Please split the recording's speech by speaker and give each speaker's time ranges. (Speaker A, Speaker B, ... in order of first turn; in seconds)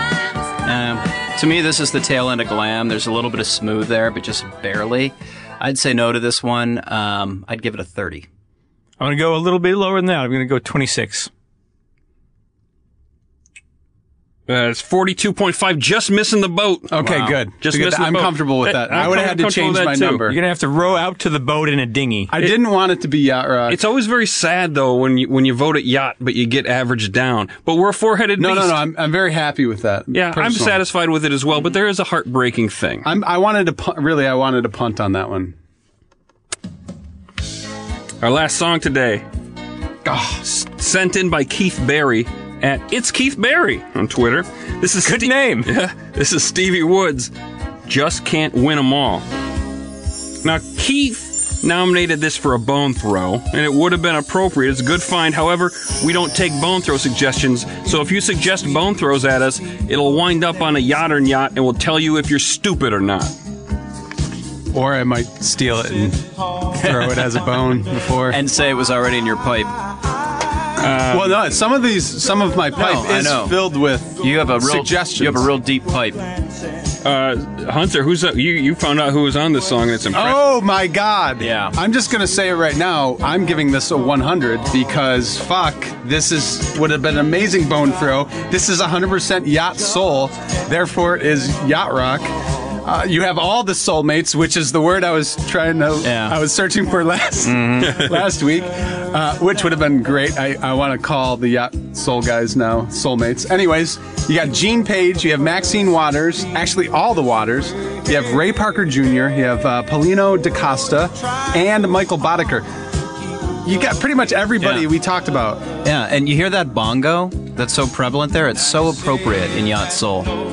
Speaker A: 0.7-8.3, 17.0-17.4, 66.8-67.4, 68.2-69.8, 72.8-73.6, 74.2-76.3, 81.4-81.8, 96.0-96.4, 97.4-98.1, 114.6-114.9, 115.8-120.3
Speaker B: 9.0-11.3, 20.3-22.3, 45.0-45.7
Speaker C: 14.5-16.9, 17.6-20.3, 23.7-28.8, 30.1-33.1, 38.2-39.2, 40.4-47.3, 47.9-49.2, 50.4-63.3, 70.8-71.4, 77.0-80.4
Speaker D: 16.9-20.4, 22.3-23.8, 28.4-30.8, 33.0-35.6, 40.0-40.4, 64.7-68.4, 71.1-75.5, 80.1-92.3, 92.8-112.7, 113.6-115.7